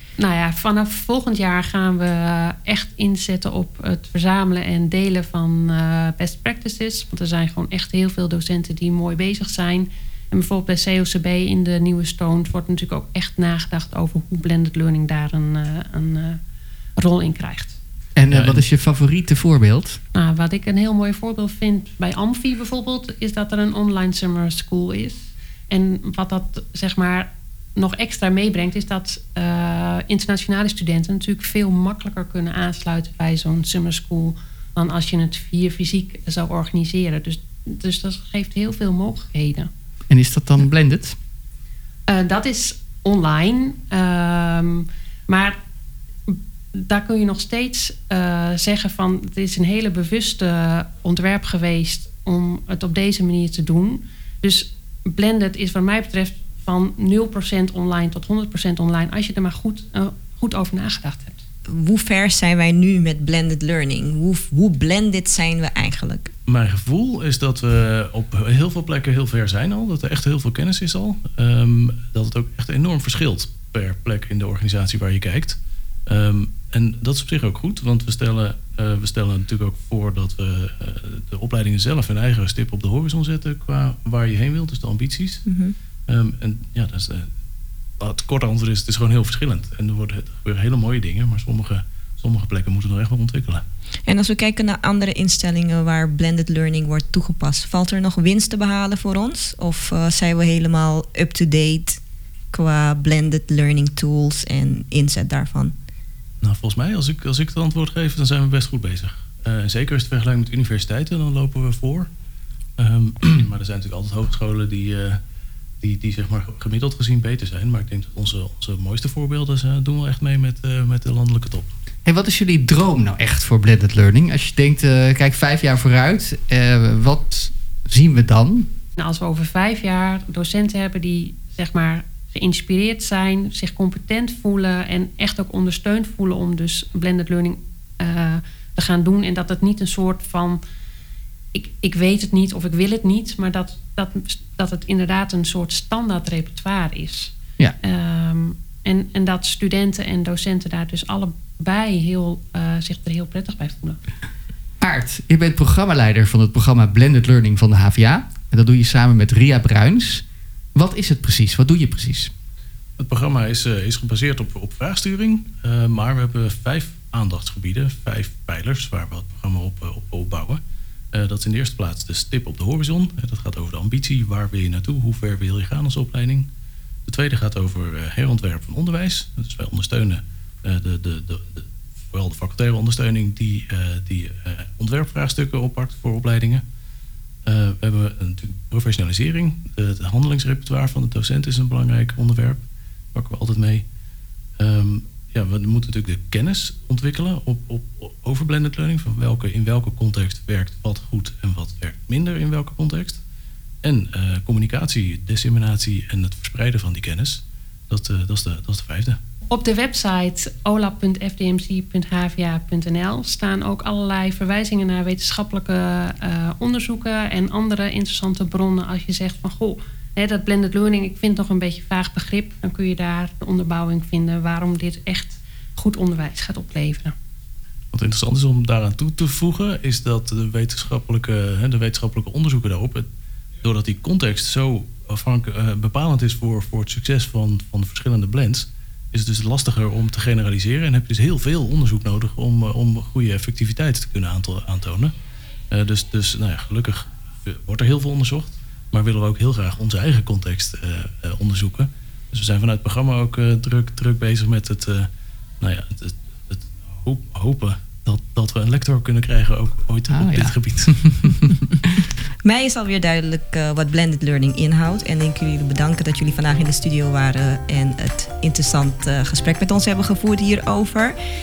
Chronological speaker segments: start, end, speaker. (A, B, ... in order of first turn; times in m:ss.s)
0:00.2-0:16.4 A
0:17.0-0:17.8 A
0:18.2-0:20.0 B
0:18.3-0:18.6 C
0:20.1-0:39.7 A
0:40.1-0:41.2 B
0:42.1-0:45.6 A
0:46.3-1:01.4 A
1:01.7-1:06.3 D
1:06.5-1:25.4 C
1:25.5-1:25.7 D
1:26.1-1:27.3 C
1:28.0-1:33.6 C
1:34.0-1:42.0 D
1:42.5-1:45.8 D
1:46.4-1:52.1 C
1:52.8-1:55.2 C
1:55.8-2:01.7 C
2:02.0-2:08.7 B
2:09.0-2:20.6 A
2:21.5-2:34.0 A
2:34.8-2:40.2 B
2:40.8-2:42.3 B
2:43.0-2:50.6 C
2:51.1-2:56.5 C
2:57.1-3:06.6 C
3:07.4-3:12.6 C
3:13.1-3:13.8 C
3:14.6-3:23.2 C
3:23.8-3:29.2 C
3:29.5-3:47.1 A
3:47.9-3:53.0 C
3:53.6-4:05.1 C
4:05.7-4:15.1 C
4:15.6-4:21.6 C
4:20.1-4:22.0 B
4:22.4-4:31.2 D